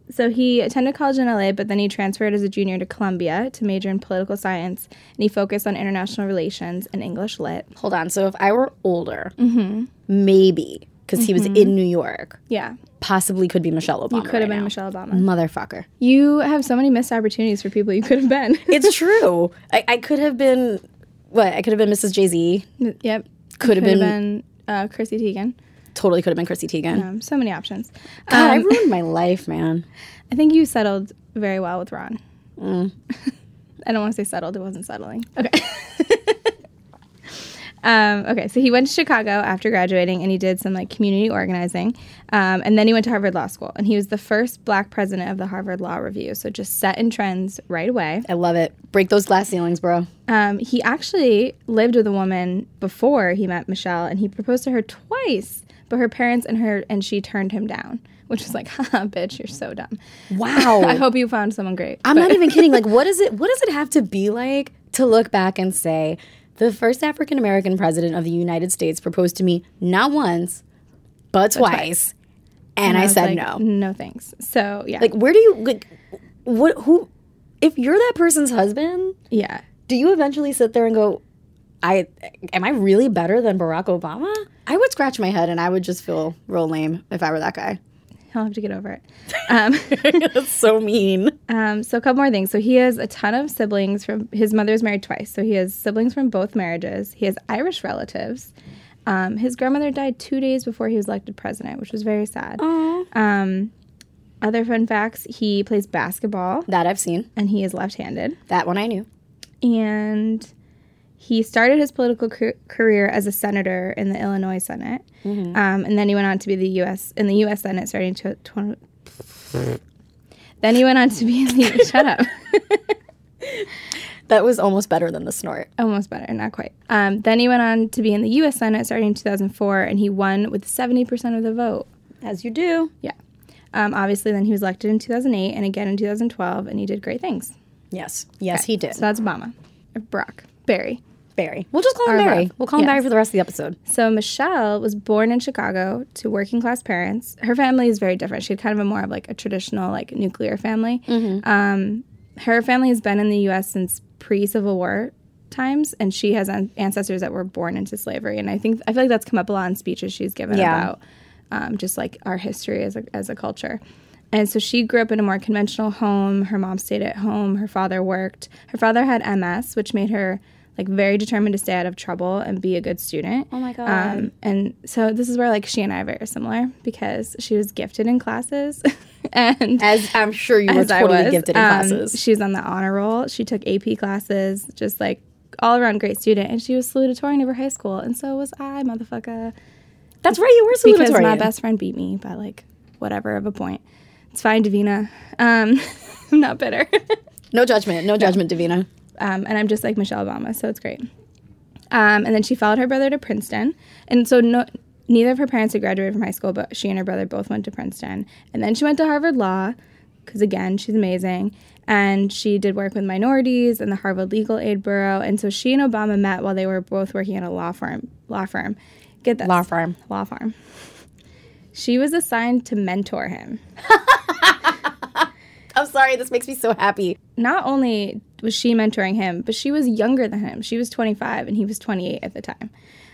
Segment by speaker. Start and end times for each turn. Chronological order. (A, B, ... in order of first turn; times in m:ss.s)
0:00.1-0:07.7 A
0:07.8-0:09.3 B
0:09.4-0:09.9 A
0:10.1-0:12.4 B
0:11.2-0:11.8 A
0:12.5-0:12.8 A
0:13.0-0:15.9 B
0:14.1-0:15.3 A
0:16.0-0:19.0 A
0:18.7-0:22.7 B
0:22.8-0:25.6 A
0:23.6-0:24.2 B
0:26.0-0:27.1 B
0:26.9-0:28.8 A
0:28.3-0:29.8 B
0:30.3-0:32.2 A
0:32.6-0:32.9 B
0:33.9-0:36.5 A
0:37.8-0:48.3 A
0:48.3-0:50.1 B
0:50.3-1:00.0 A
1:00.3-1:01.0 B
1:00.5-1:02.8 A
1:02.0-1:10.6 B
1:11.3-1:12.1 B
1:11.6-1:11.9 A
1:12.8-1:13.6 B
1:12.8-1:15.1 A
1:15.0-1:15.9 B
1:16.4-1:17.1 B
1:17.6-1:19.2 B
1:19.3-1:19.6 A
1:19.9-1:21.2 B
1:21.8-1:27.8 B
1:28.3-1:30.3 A
1:29.9-1:31.4 B
1:31.5-1:38.5 A
1:39.1-1:43.7 A
1:42.6-1:43.1 B
1:44.4-1:46.7 A
1:46.7-1:47.3 B
1:47.4-1:48.4 A
1:48.5-1:49.1 B
1:49.6-1:50.5 A
1:51.2-1:59.8 A
1:55.2-1:55.6 B
2:00.6-2:02.9 A
2:04.3-2:05.7 B
2:05.8-2:11.9 A
2:12.2-2:12.9 B
2:13.7-2:17.5 A
2:17.9-2:19.0 B
2:18.5-2:21.0 A
2:21.4-2:23.8 B
2:22.1-2:23.0 A
2:23.9-2:41.0 A
2:31.1-2:31.4 B
2:40.5-2:40.9 B
2:41.5-2:43.8 A
2:44.3-2:59.9 A
2:53.5-2:54.3 B
2:59.8-3:02.2 B
3:00.7-3:09.5 A
3:10.2-3:11.5 B
3:10.8-3:13.8 A
3:14.3-3:17.2 A
3:17.5-3:18.9 B
3:19.2-3:21.0 A
3:21.9-3:29.8 A
3:30.3-3:40.6 A
3:39.4-3:40.0 B
3:41.7-3:43.6 A
3:43.9-3:47.2 B
3:47.4-3:52.7 A